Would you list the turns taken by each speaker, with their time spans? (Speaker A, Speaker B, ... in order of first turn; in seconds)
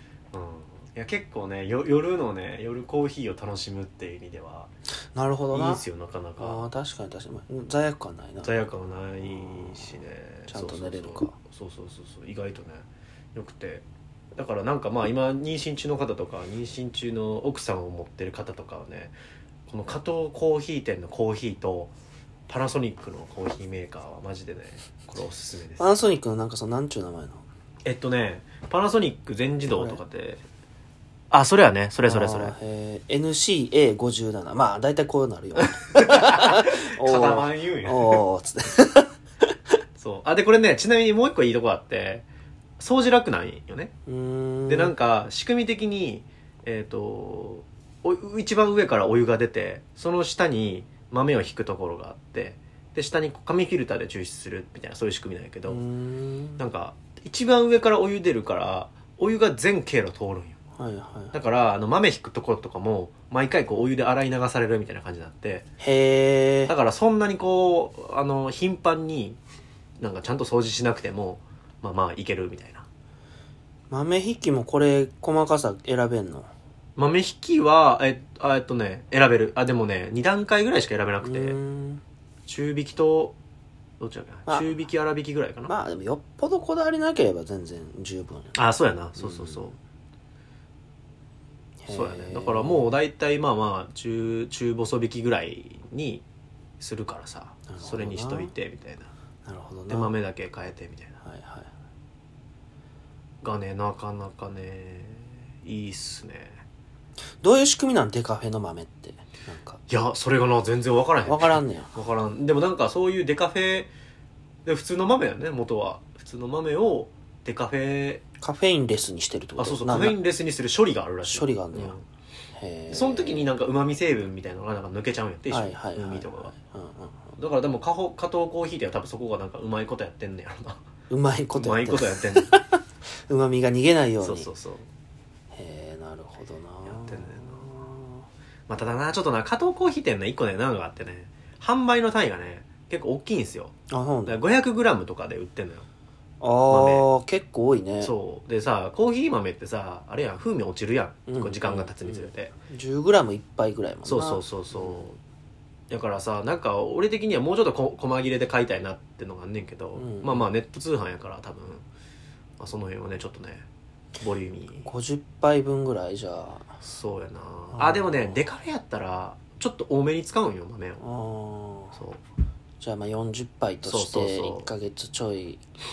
Speaker A: 0.3-4.7, 5.5-6.6, 8.4-13.8, 14.3-19.1, 19.7-21.9, 22.5-25.9, 27.9-30.4, 31.3-32.5, 35.6-38.2, 40.0-42.2, 42.8-43.9, 44.7-55.8, 56.6-60.6, 61.3-65.6, 66.7-69.4, 70.0-72.8, 77.0-81.6, 82.5-83.3, 84.0-85.7, 88.5-89.8, 91.9-96.2, 96.8-99.1, 99.9-101.1, 103.4-106.6, 109.9-113.9, 114.7-118.2, 119.6-122.0, 122.9-126.5, 127.3-130.8, 131.5-132.6, 134.2-134.9, 136.9-137.7, 138.7-143.7, 144.2-145.8, 146.7-147.1, 148.0-152.5, 154.0-155.2, 155.9-161.8, 162.6-163.6, 164.2-164.9, 166.8-171.0, 173.8-174.7
Speaker B: 5.1-5.8, 6.4-8.5, 10.5-11.3, 25.8-27.4, 29.8-30.0, 32.0-39.1, 44.0-44.9, 55.6-56.6, 60.8-61.4, 65.8-66.7, 73.9-76.5, 81.2-82.0, 84.5-84.7, 85.7-88.5, 89.2-89.7, 91.8-92.9, 97.7-98.5, 99.5-100.1, 101.2-101.7, 107.4-109.8, 111.2-111.9, 118.4-120.2, 121.2-122.0, 122.5-123.5, 125.5-127.3, 131.1-134.5, 135.5-138.2, 143.9-144.4, 146.4-148.1, 151.3-155.0, 159.9-160.5, 164.8-166.7, 167.7-168.4, 171.0-172.0, 172.8-175.6